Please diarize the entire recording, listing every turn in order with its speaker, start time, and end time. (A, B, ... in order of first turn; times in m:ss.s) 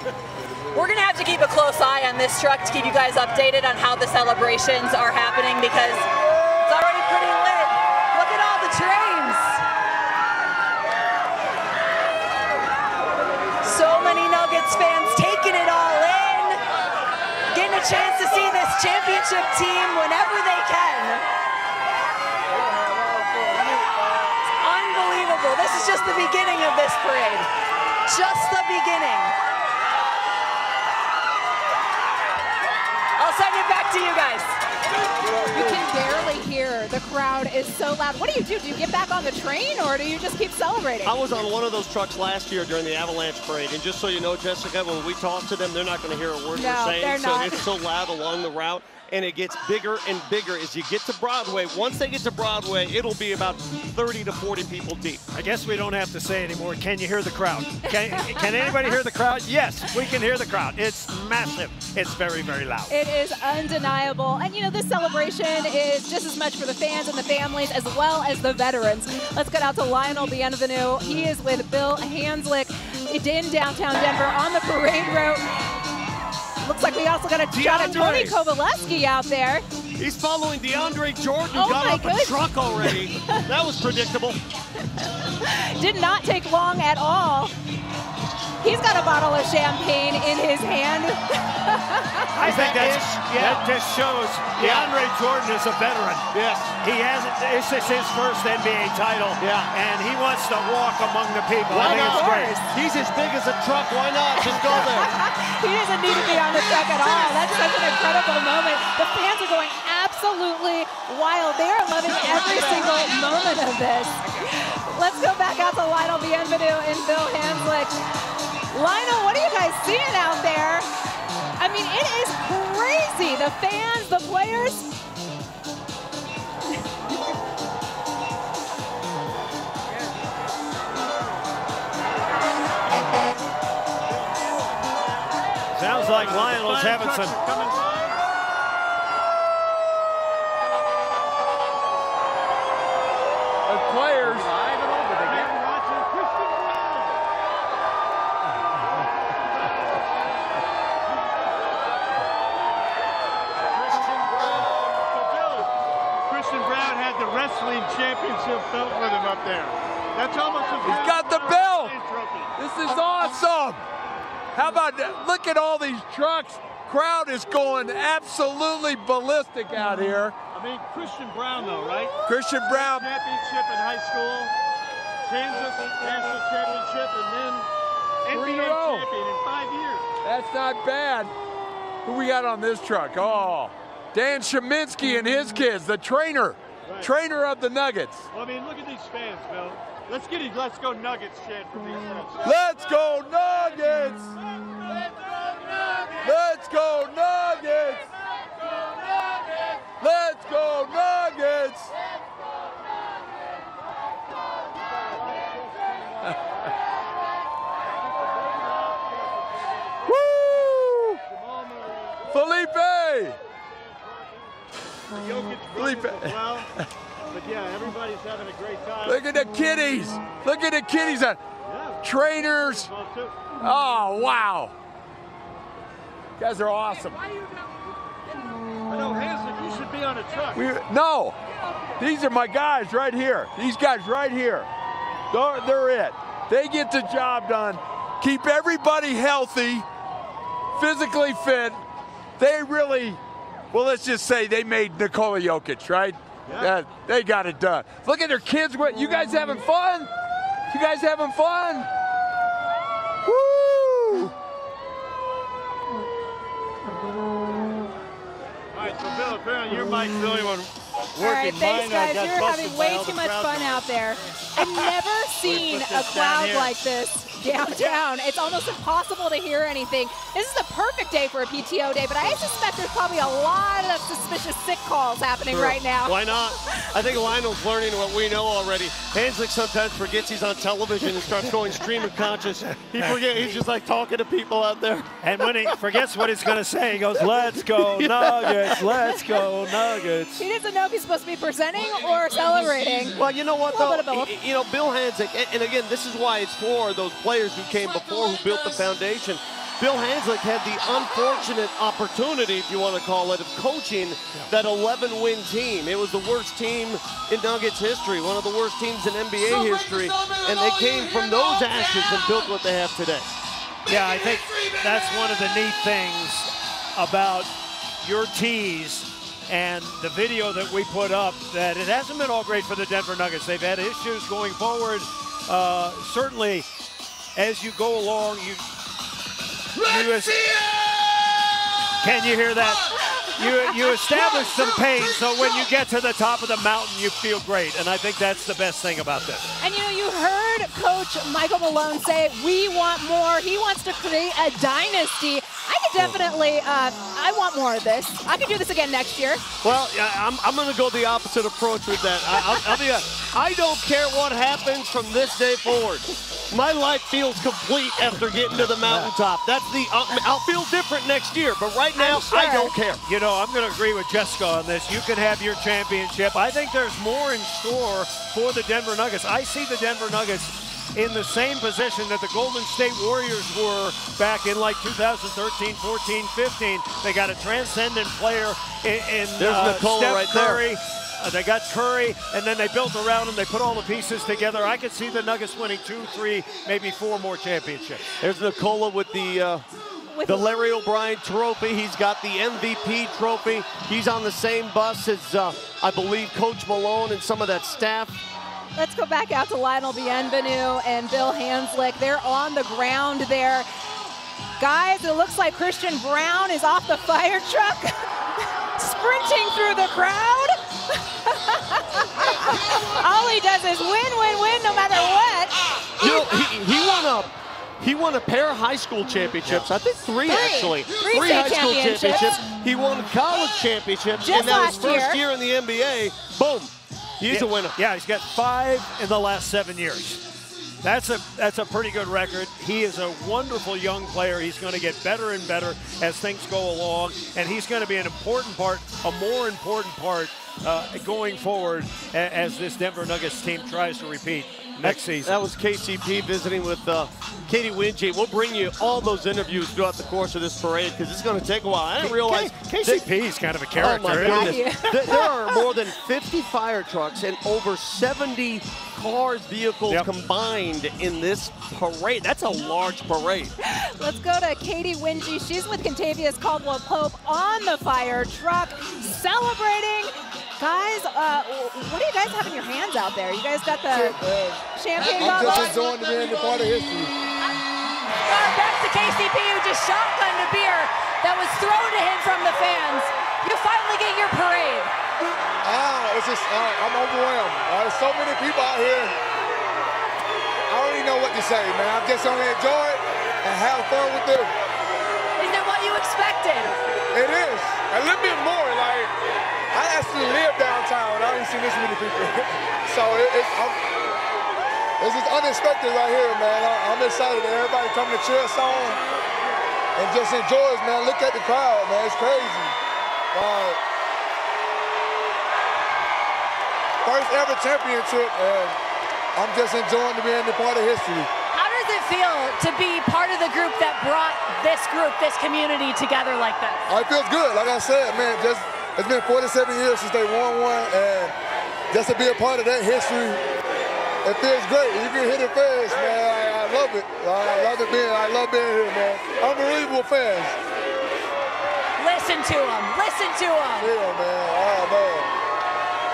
0:00.7-0:09.6 A
0:13.6-0:16.6 A
0:17.5-0:21.2 A
0:24.5-0:27.5 A
0:28.1-0:29.3 A
0:33.2-0:34.6 A
0:35.5-0:41.1 B
0:41.0-0:55.2 C
0:46.6-0:47.6 B
0:55.3-1:02.9 D
1:02.9-1:15.8 B
1:16.6-1:19.6 B
1:17.5-1:18.4 C
1:20.0-1:24.4 C
1:21.5-1:22.8 B
1:25.4-1:27.6 B
1:28.6-1:32.3 B
1:32.4-1:33.6 C
1:32.4-1:36.3 D
1:34.6-1:34.9 C
1:36.3-1:36.7 C
1:36.8-1:42.6 D
1:39.4-1:39.7 C
1:41.7-1:45.1 C
1:41.8-1:42.7 B
1:44.4-1:58.0 B
1:58.7-2:00.9 B
2:01.6-2:05.0 B
2:15.7-2:17.4 D
2:15.8-2:18.2 E
2:23.7-2:25.5 F
2:25.2-2:27.2 E
2:29.2-2:30.0 E
2:33.7-2:35.7 E
2:36.3-2:42.5 E
2:40.8-2:41.9 F
2:42.6-2:43.8 F
2:44.6-2:50.4 F
2:50.5-2:54.5 E
2:52.3-2:53.1 F
2:55.3-2:57.7 E
2:58.3-3:00.0 E
2:58.3-2:59.1 F
3:00.2-3:01.3 F
3:02.1-3:08.3 F
3:06.8-3:07.1 E
3:08.3-3:12.5 E
3:12.4-3:14.3 F
3:16.2-3:18.1 F
3:20.0-3:21.9 F
3:25.1-3:26.5 E
3:28.4-3:29.4 E
3:30.1-3:31.2 F
3:31.3-3:32.2 E
3:32.3-3:33.4 F
3:35.2-3:36.7 E
3:35.8-3:36.4 F
3:37.3-3:39.2 E
3:39.0-3:41.4 F
3:41.6-3:42.0 E
3:42.0-3:42.9 F
3:42.6-3:43.4 E
3:43.6-3:44.7 F
3:46.4-3:47.2 F
3:48.9-3:50.6 E
3:50.6-3:51.4 F
3:52.0-3:54.7 F
3:55.3-3:59.9 F
4:00.8-4:01.8 F
4:02.4-4:03.2 F
4:03.7-4:10.1 F
4:10.7-4:11.9 F
4:13.3-4:14.3 F
4:18.7-4:22.5 E
4:21.2-4:36.3 B
4:23.0-4:23.6 C
4:25.7-4:26.6 C
4:35.5-4:45.2 C
4:45.2-4:50.4 D
4:50.4-4:54.3 B
4:53.2-5:13.3 C
5:13.9-5:26.7 D
5:27.4-5:28.6 D
5:29.8-5:30.7 D
5:32.0-5:39.5 D
5:39.6-5:49.5 B
5:49.6-6:03.0 C
5:58.6-5:59.1 D
6:02.0-6:02.7 B
6:03.1-6:28.2 D
6:19.4-6:20.7 C
6:28.2-6:29.7 C
6:30.1-6:30.5 B
6:30.2-6:38.2 C
6:38.8-6:43.7 B
6:44.6-6:48.1 B
6:48.8-6:56.2 B
6:56.0-7:07.8 C
7:00.3-7:02.4 B
7:04.2-7:05.2 B
7:07.3-7:10.2 D
7:10.8-7:25.4 D
7:24.8-7:33.1 C
7:32.0-7:34.7 D
7:33.7-7:43.5 C
7:34.2-7:35.7 B
7:43.6-7:54.2 B
7:53.9-7:57.2 G
7:54.8-7:55.8 B
7:55.4-7:55.9 A
7:58.2-8:04.9 A
8:05.6-8:09.2 G
8:10.7-8:14.5 G
8:15.4-8:16.8 A
8:17.1-8:19.1 G
8:19.7-8:23.8 G
8:25.0-8:29.0 G
8:30.0-8:32.8 G
8:33.3-8:33.8 G
8:37.0-8:38.8 G
8:39.4-8:41.3 G
8:41.5-8:46.8 A
8:46.9-8:51.4 G
8:51.9-8:53.4 G
8:54.2-9:00.6 G
9:02.0-9:03.9 A
9:03.8-9:05.3 G